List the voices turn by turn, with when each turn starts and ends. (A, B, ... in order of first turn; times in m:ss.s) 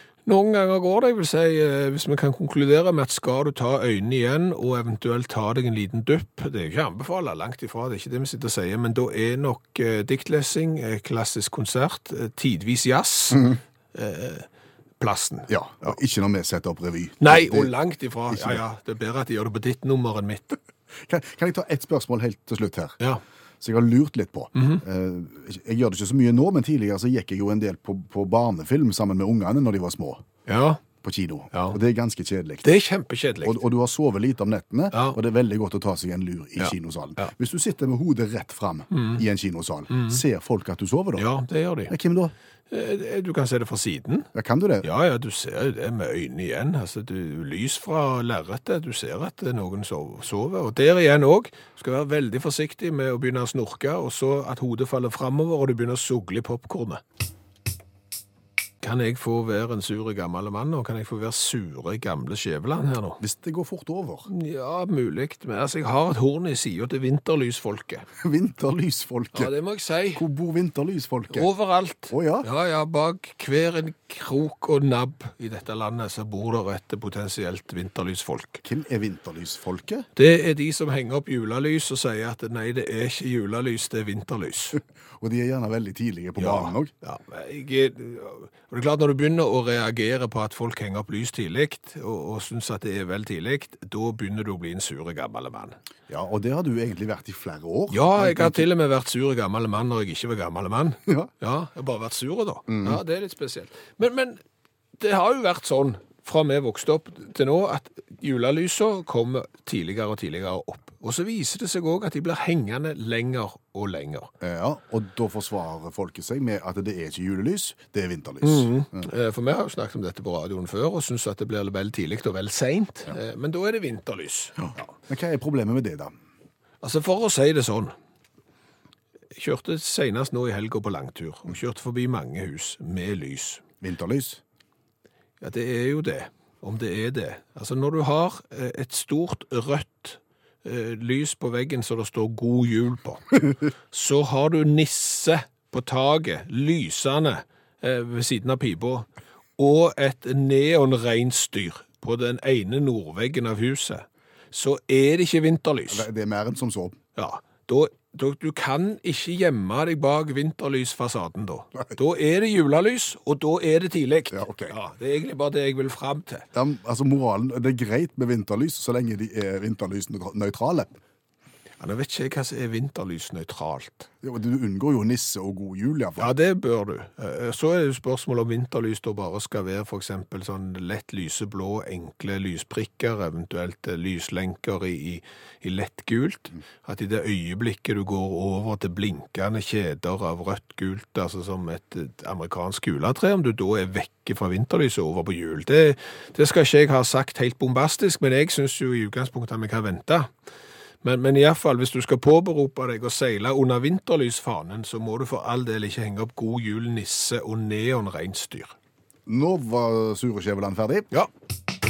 0:00.2-0:14.5 A
0:15.0-0:15.9 A
0:15.5-0:17.7 B
0:17.2-0:20.6 A
0:18.3-0:18.6 B
0:21.0-0:23.0 B
0:23.6-0:30.2 B
0:24.5-0:24.8 A
0:30.5-0:30.8 A
0:31.0-0:32.7 B
0:31.5-0:31.8 A
0:32.6-0:33.6 A
0:33.4-0:41.3 B
0:34.9-0:35.2 A
0:36.6-0:37.3 A
0:38.9-0:39.2 A
0:39.9-0:40.2 A
0:41.2-0:41.9 A
0:41.9-0:42.3 B
0:42.7-0:44.3 A
0:44.3-0:44.9 B
0:44.8-0:57.0 A
0:58.8-1:03.2 A
1:03.2-1:04.3 B
1:04.3-1:08.0 A
1:08.2-1:09.5 B
1:09.3-1:10.2 A
1:10.1-1:11.5 B
1:11.3-1:18.6 A
1:12.1-1:12.5 B
1:18.6-1:20.1 B
1:20.2-1:24.8 A
1:25.2-1:26.9 B
1:26.4-1:35.8 A
1:36.1-1:38.6 B
1:37.9-1:44.4 A
1:42.7-1:43.0 B
1:45.0-1:54.3 A
1:54.4-1:59.1 B
1:58.4-2:04.8 A
2:05.1-2:06.1 B
2:06.8-2:07.9 A
2:09.3-2:13.6 A
2:13.8-2:14.4 B
2:15.4-2:29.1 A
2:29.6-2:36.1 A
2:35.9-2:37.0 B
2:37.2-2:46.4 A
2:44.3-2:44.7 B
2:46.5-2:51.0 B
2:51.8-2:54.1 A
2:54.2-2:56.3 B
2:56.2-3:20.3 A
3:21.0-3:28.7 A
3:29.2-3:31.1 B